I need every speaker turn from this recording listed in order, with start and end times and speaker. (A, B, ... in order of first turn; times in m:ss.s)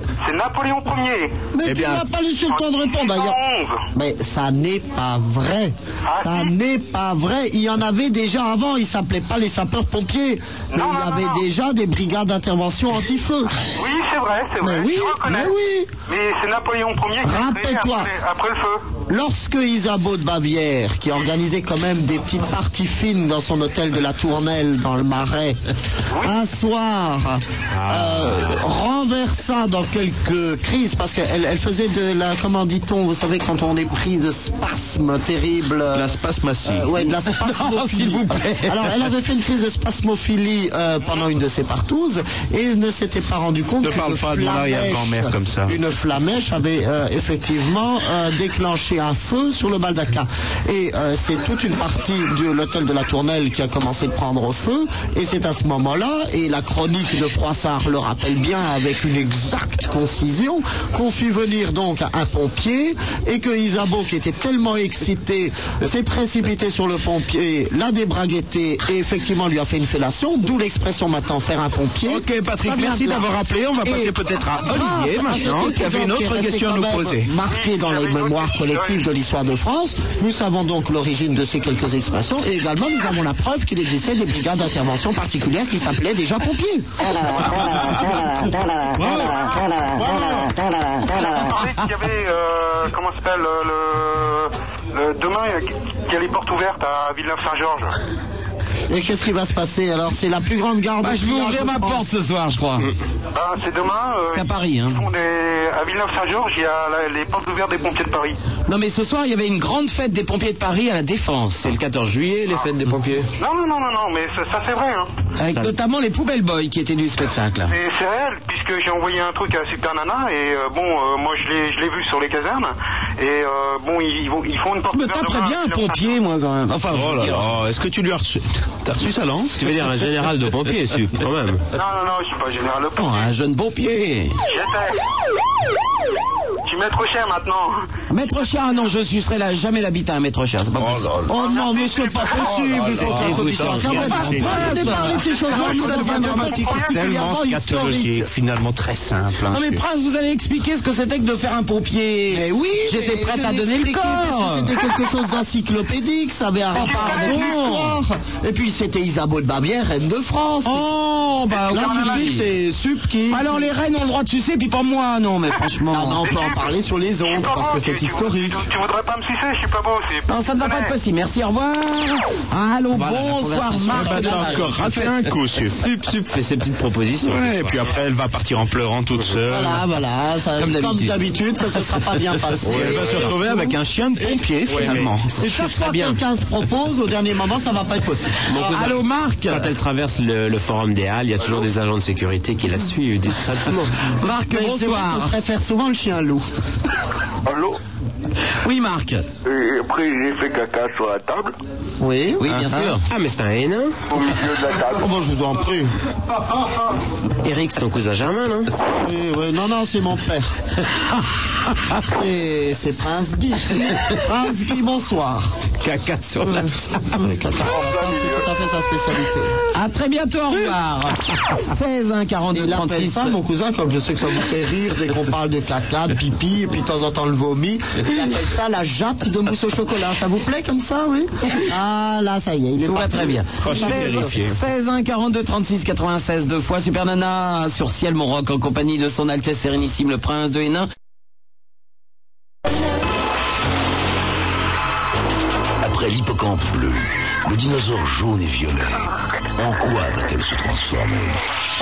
0:00.2-0:01.4 A
0:01.5-0:03.4 B
0:01.6-0:02.0 C
0:02.5-0:03.8 A
0:03.9-0:13.6 B
0:06.0-0:06.5 A
0:10.7-0:11.4 A
0:13.8-0:15.5 A
0:14.6-0:15.9 B
0:16.1-0:18.8 A
0:17.2-0:18.1 B
0:19.1-0:25.6 B
0:26.2-1:13.3 B
0:27.7-0:28.4 D
0:35.9-0:36.9 C
0:37.0-0:39.0 E
0:43.8-0:45.8 C
1:12.1-1:17.3 C
1:13.8-1:26.9 B
1:17.5-1:19.0 A
1:27.6-1:28.1 C
1:29.0-1:30.6 C
1:29.2-1:29.7 A
1:31.3-1:38.0 A
1:38.9-1:42.1 B
1:41.0-1:42.9 E
1:43.4-1:48.4 A
1:44.3-1:45.0 E
1:48.7-1:51.7 E
1:51.6-1:53.3 D
1:53.4-1:55.1 A
1:55.4-1:57.7 E
1:57.7-2:06.2 A
2:04.9-2:07.4 E
2:06.9-2:09.6 C
2:09.6-2:11.6 D
2:11.7-2:13.3 A
2:13.0-2:14.4 E
2:14.5-2:15.0 A
2:16.6-2:17.8 A
2:18.1-2:21.1 E
2:20.8-2:21.4 C
2:21.3-2:28.3 B
2:21.3-2:22.5 A
2:22.3-2:29.8 C
2:23.0-2:24.8 D
2:23.8-2:25.5 E
2:25.8-2:26.9 A
2:29.5-2:34.7 E
2:32.3-2:40.9 B
2:36.8-2:38.0 E
2:36.8-2:37.6 A
2:40.6-2:42.5 E
2:41.5-2:42.4 A
2:41.7-2:43.7 B
2:43.3-2:46.2 E
2:45.9-2:48.6 B
2:46.2-2:51.0 A
2:50.3-2:55.1 E
2:52.9-2:54.9 B
2:53.9-2:55.8 C
2:55.8-2:57.8 D
2:57.2-2:59.8 C
2:59.5-3:03.4 B
3:00.6-3:01.2 E
3:02.6-3:05.3 C
3:04.7-3:06.2 D
3:04.8-3:08.7 B
3:08.5-3:13.9 D
3:08.6-3:09.7 E
3:14.2-3:15.3 E
3:14.5-3:16.5 B
3:17.4-3:17.8 F
3:18.6-3:19.3 E
3:19.4-3:21.6 F
3:22.0-3:22.9 B
3:22.4-3:23.0 E
3:23.1-3:24.0 D
3:24.1-3:25.1 F
3:24.9-3:25.9 B
3:27.4-3:28.7 D
3:29.0-3:30.5 B
3:31.9-3:35.6 B
3:35.8-3:37.2 D
3:36.4-3:39.5 B
3:37.6-3:38.5 F
3:39.7-3:43.4 E
3:42.5-3:53.4 B
3:52.9-4:00.9 E
3:53.6-3:54.6 C
4:05.8-4:11.4 G